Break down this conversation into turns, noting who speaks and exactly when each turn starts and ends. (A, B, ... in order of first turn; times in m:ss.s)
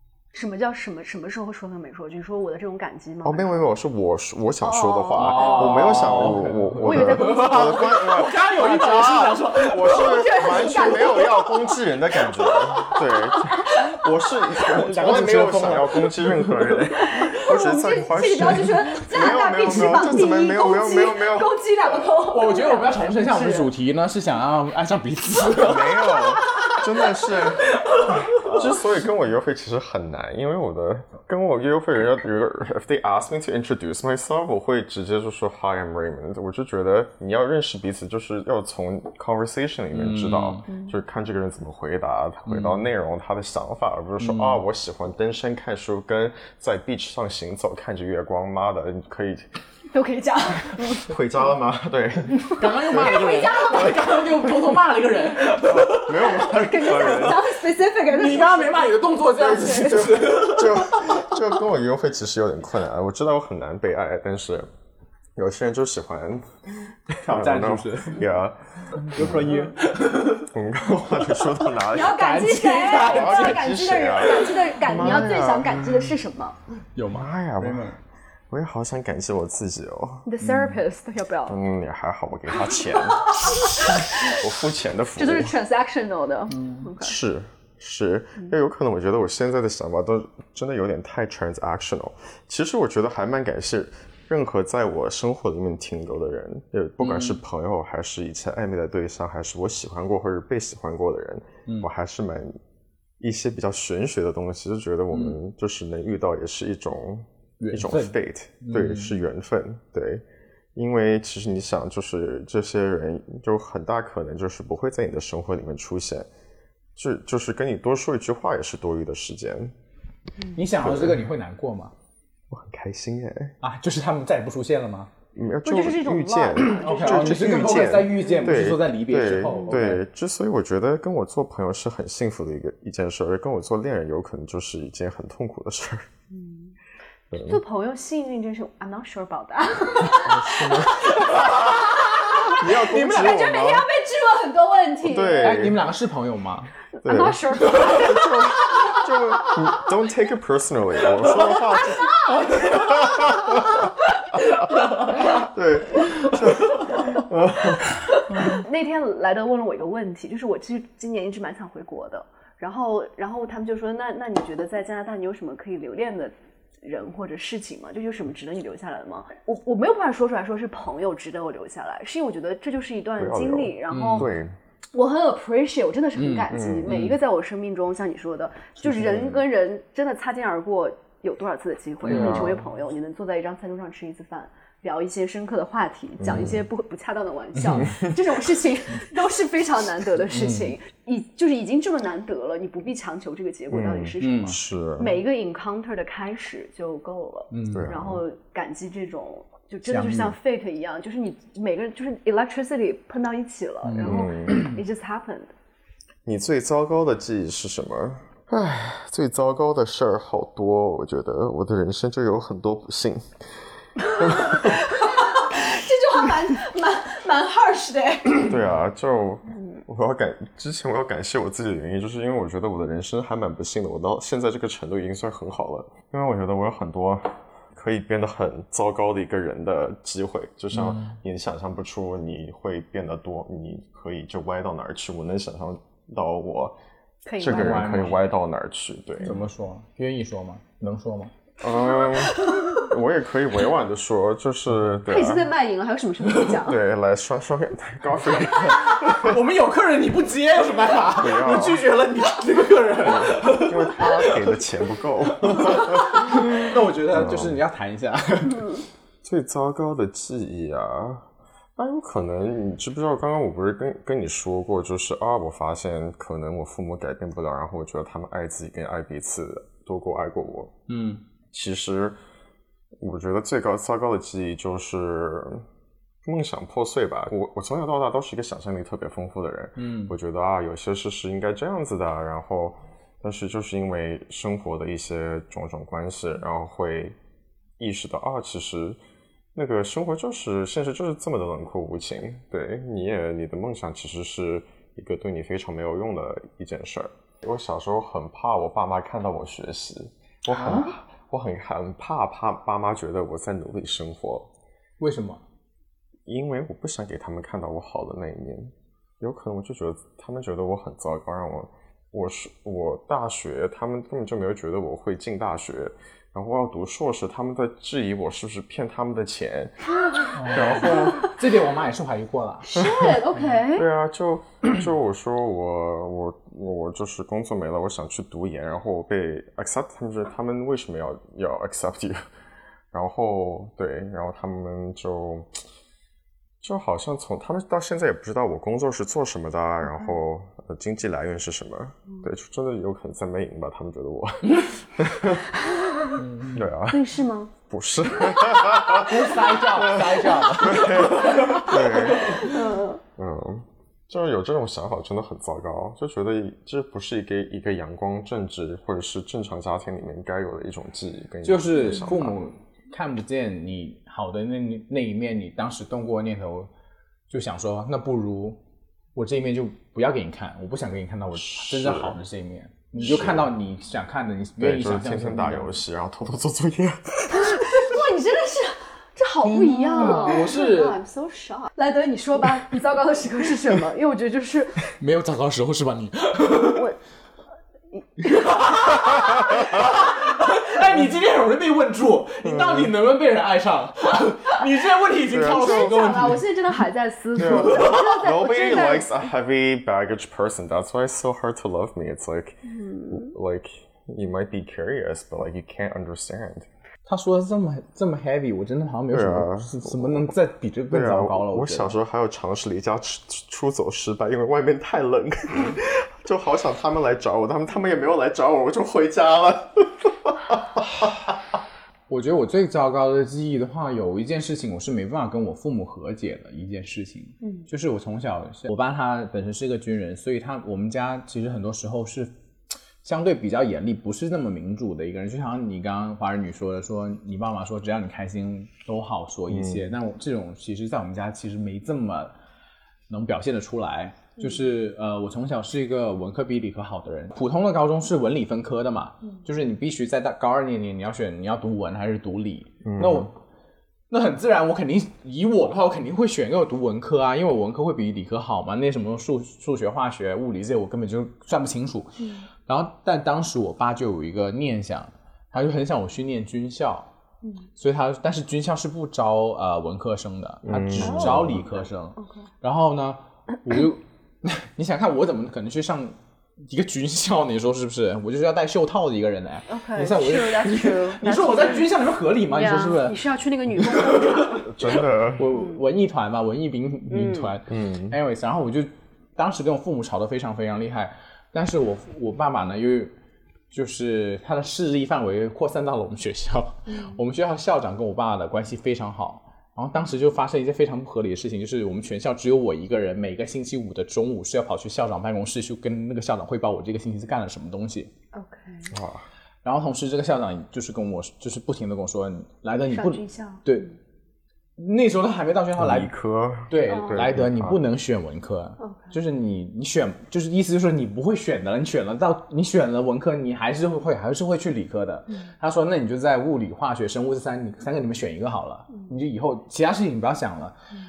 0:00.3-0:03.6 A
0:03.2-0:21.5 B
0:04.6-0:08.0 A
0:05.2-0:10.6 C
0:09.8-0:11.8 A
0:12.2-0:13.0 C
0:13.4-0:14.0 A
0:14.6-0:16.6 C
0:17.0-0:23.7 A
0:19.8-0:20.0 C
0:22.3-0:26.7 C
0:25.6-0:27.7 B
0:26.2-0:26.9 A
0:27.7-0:28.6 C
0:28.4-0:49.5 B
0:39.9-0:40.7 C
0:40.7-0:40.9 A
0:42.5-0:42.9 C
0:44.2-0:44.6 C
0:49.9-0:51.1 A
0:51.1-0:53.9 B
0:52.5-0:57.3 C
0:52.5-0:54.2 A
0:55.6-0:57.6 B
0:56.3-1:00.3 A
0:58.1-1:01.2 C
0:59.4-1:04.7 B
1:05.4-1:09.7 B
1:07.3-1:08.2 C
1:09.0-1:10.5 C
1:10.5-1:12.3 B
1:11.9-1:16.6 A
1:12.0-1:14.5 C
1:13.0-1:16.1 B
1:17.0-1:18.0 C
1:17.1-1:17.9 B
1:18.5-1:20.3 B
1:20.2-1:21.6 A
1:20.4-1:20.7 C
1:21.5-1:25.6 B
1:22.9-1:24.5 A
1:25.2-1:27.2 A
1:26.5-1:26.9 C
1:27.0-1:42.6 B
1:37.0-1:37.4 C
1:43.2-1:50.2 B
1:47.6-1:49.2 C
1:50.8-1:56.3 B
1:57.0-1:59.8 B
2:00.5-2:01.9 C
2:00.8-2:01.2 B
2:02.5-2:03.6 B
2:03.6-2:05.1 C
2:05.4-2:16.1 B
2:05.6-2:08.0 A
2:06.6-2:10.0 C
2:16.3-2:16.7 A
2:17.3-2:17.6 B
2:17.3-2:25.7 A
2:20.2-2:21.8 B
2:22.5-2:23.9 B
2:25.0-2:25.8 B
2:25.4-2:26.7 C
2:27.0-2:29.7 A
2:27.0-2:38.0 B
2:31.4-2:33.9 A
2:38.3-2:54.3 A
2:53.2-2:54.5 B
2:53.9-2:54.3 C
2:54.9-3:25.5 A
2:56.2-2:57.2 C
2:56.5-2:57.1 B
2:59.0-2:59.4 B
3:02.0-3:02.5 C
3:02.1-3:02.6 B
3:06.2-3:06.6 B
3:07.6-3:08.0 C
3:10.3-3:10.7 C
3:13.7-3:15.2 B
3:14.2-3:14.6 C
3:17.5-3:17.9 C
3:17.7-3:18.2 B
3:19.9-3:20.4 C
3:23.8-3:24.8 C
3:24.0-3:24.6 B
3:26.2-3:34.8 B
3:34.2-3:38.5 A
3:38.4-3:56.8 B
3:50.7-3:51.2 C
3:57.3-3:58.1 A
3:57.4-3:59.4 B
3:57.5-3:58.2 C
3:59.2-4:01.3 C
4:01.6-4:05.5 B
4:02.0-4:02.9 A
4:05.1-4:06.8 A
4:06.6-4:09.4 B
4:09.0-4:14.5 C
4:11.1-4:11.8 B
4:13.0-4:17.6 B
4:15.5-4:18.8 C
4:19.2-4:30.7 B
4:30.9-4:31.2 C
4:31.5-4:32.2 B
4:33.0-4:35.7 B
4:36.2-4:47.2 B
4:39.8-4:40.2 C
4:47.8-4:49.0 B
4:49.6-5:04.5 B
5:00.5-5:01.0 C
5:05.0-5:05.4 C
5:06.3-5:19.9 B
5:20.3-5:22.8 C
5:20.4-5:21.3 B
5:21.0-5:21.3 A
5:22.6-5:23.9 A
5:22.8-5:23.2 B
5:23.8-5:32.3 B
5:32.9-5:35.6 B
5:36.6-5:45.5 B
5:44.5-5:44.7 C
5:45.7-5:46.1 A
5:46.2-5:46.6 C
5:46.5-5:47.0 B
5:46.9-5:47.5 A
5:47.7-5:52.6 B
5:48.3-5:49.0 A
5:49.0-5:52.5 C
5:50.3-5:53.0 A
5:53.2-6:02.4 B
6:01.4-6:06.7 C
6:07.3-6:08.6 C
6:09.2-6:15.8 C
6:11.3-6:12.2 B
6:13.0-6:13.5 B
6:14.6-6:18.0 B
6:17.3-6:25.0 A
6:19.5-6:20.3 B
6:19.9-6:21.0 C
6:25.0-6:26.8 C
6:28.2-6:29.6 A
6:28.3-6:36.5 C
6:32.4-6:32.9 B
6:35.3-6:36.0 B
6:35.4-6:39.2 A
6:37.4-6:46.7 B
6:37.6-6:38.2 C
6:42.7-6:43.3 A
6:47.1-6:52.0 C
6:49.1-6:50.3 B
6:50.9-7:01.4 B
7:02.1-7:12.3 C
7:13.0-7:22.3 C
7:19.5-7:19.8 B
7:23.1-7:33.3 C
7:32.8-7:33.3 B
7:34.1-7:47.1 C
7:47.8-8:03.2 C
7:50.6-7:51.6 B
7:51.0-7:51.5 A
7:59.7-8:01.9 A
8:02.5-8:04.7 A
8:03.8-8:13.1 C
8:04.7-8:05.5 B
8:07.1-8:07.6 A
8:07.7-8:08.2 B
8:13.7-8:28.1 C
8:28.3-8:28.9 A
8:28.9-8:29.3 B
8:29.6-8:33.9 C
8:32.9-8:33.7 A
8:34.8-8:36.2 C
8:35.8-8:37.8 B
8:36.7-8:50.8 C
8:36.9-8:37.3 A
8:38.8-8:39.1 A